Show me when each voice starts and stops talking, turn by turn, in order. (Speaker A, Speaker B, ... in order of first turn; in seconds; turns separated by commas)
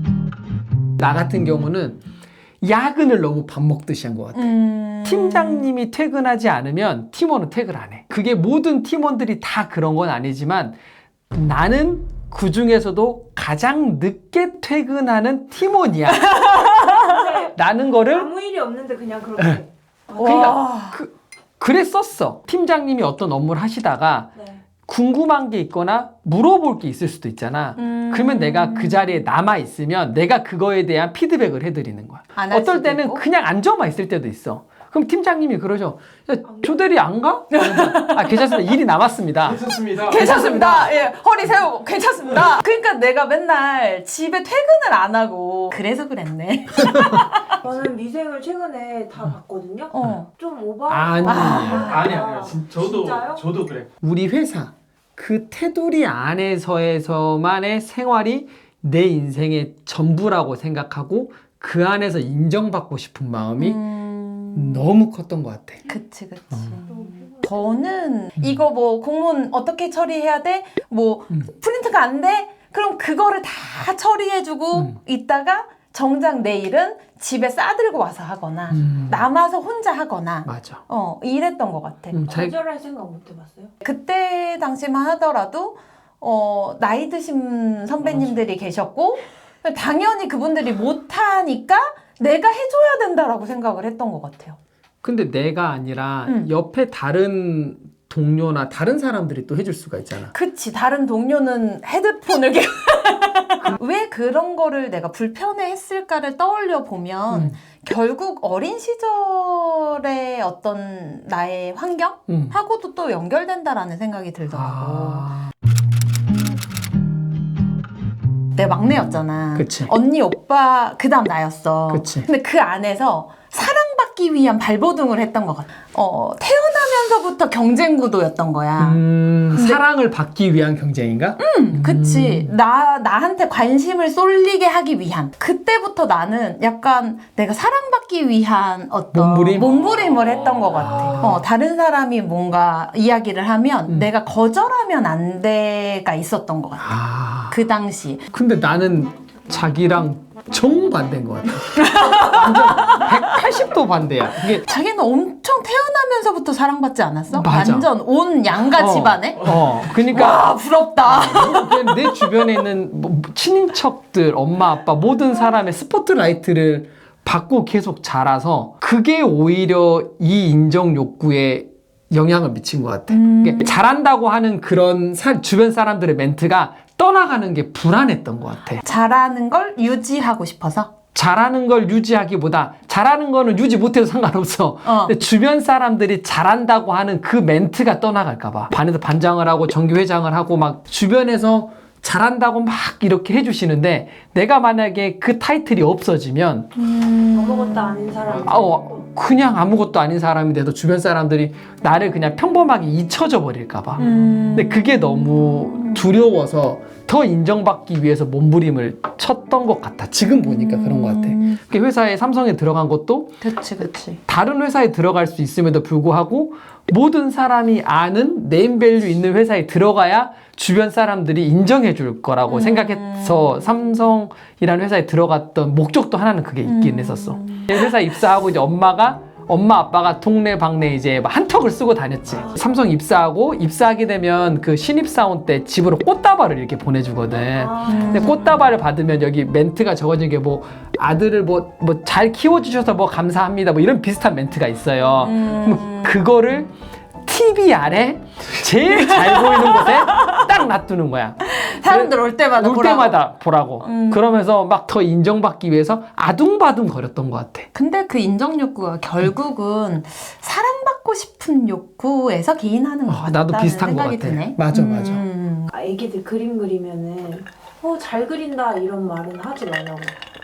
Speaker A: 1.0-2.0, Speaker A: 2.6-4.5, Speaker B: 4.3-5.7, Speaker A: 5.0-10.8, Speaker A: 11.3-16.4, Speaker B: 16.1-17.1, Speaker C: 17.0-20.6, Speaker A: 17.5-18.3, Speaker B: 20.2-21.0, Speaker A: 20.2-24.3, Speaker C: 24.4-24.6, Speaker A: 24.9-40.9, Speaker B: 27.8-29.2, Speaker B: 32.4-33.2, Speaker C: 36.4-36.8, Speaker B: 37.5-38.7, Speaker D: 39.5-40.1, Speaker B: 39.9-47.5, Speaker C: 47.6-53.5, Speaker B: 49.9-50.3, Speaker A: 50.9-52.5, Speaker B: 51.2-51.9, Speaker D: 51.8-53.9, Speaker A: 54.0-63.8, Speaker B: 63.6-64.9, Speaker A: 64.5-65.8, Speaker B: 65.8-82.2, Speaker A: 66.5-66.8, Speaker C: 66.9-67.8, Speaker A: 78.7-79.2, Speaker A: 80.5-80.8, Speaker A: 82.1-82.5, Speaker C: 82.2-83.7, Speaker B: 83.8-94.6, Speaker A: 88.0-88.4, Speaker A: 95.0-100.3, Speaker B: 100.3-115.3, Speaker A: 112.3-112.5, Speaker A: 114.5-115.5, Speaker B: 118.5-129.0, Speaker A: 119.5-119.9, Speaker A: 121.9-122.3, Speaker A: 128.8-132.5, Speaker B: 129.5-129.8, Speaker B: 131.4-148.3, Speaker A: 139.1-139.8, Speaker A: 140.7-141.4, Speaker A: 146.8-147.6, Speaker A: 148.3-154.6, Speaker B: 151.8-153.4, Speaker B: 154.6-162.5, Speaker A: 157.3-157.9, Speaker A: 158.7-178.8, Speaker B: 173.1-173.8, Speaker B: 178.8-180.9, Speaker A: 181.1-196.7, Speaker B: 184.8-185.1, Speaker B: 196.8-198.0, Speaker C: 197.3-198.8, Speaker A: 198.4-213.4, Speaker B: 204.0-206.0, Speaker B: 210.5-211.6, Speaker B: 213.4-214.2, Speaker A: 214.3-246.7, Speaker B: 222.5-223.6, Speaker B: 226.6-227.8, Speaker C: 237.6-238.5, Speaker B: 237.8-238.6, Speaker B: 245.2-246.2, Speaker A: 247.2-257.7, Speaker B: 248.9-250.4, Speaker B: 251.4-253.2, Speaker B: 253.8-254.3, Speaker B: 257.7-265.7, Speaker A: 263.1-265.2, Speaker C: 265.7-270.1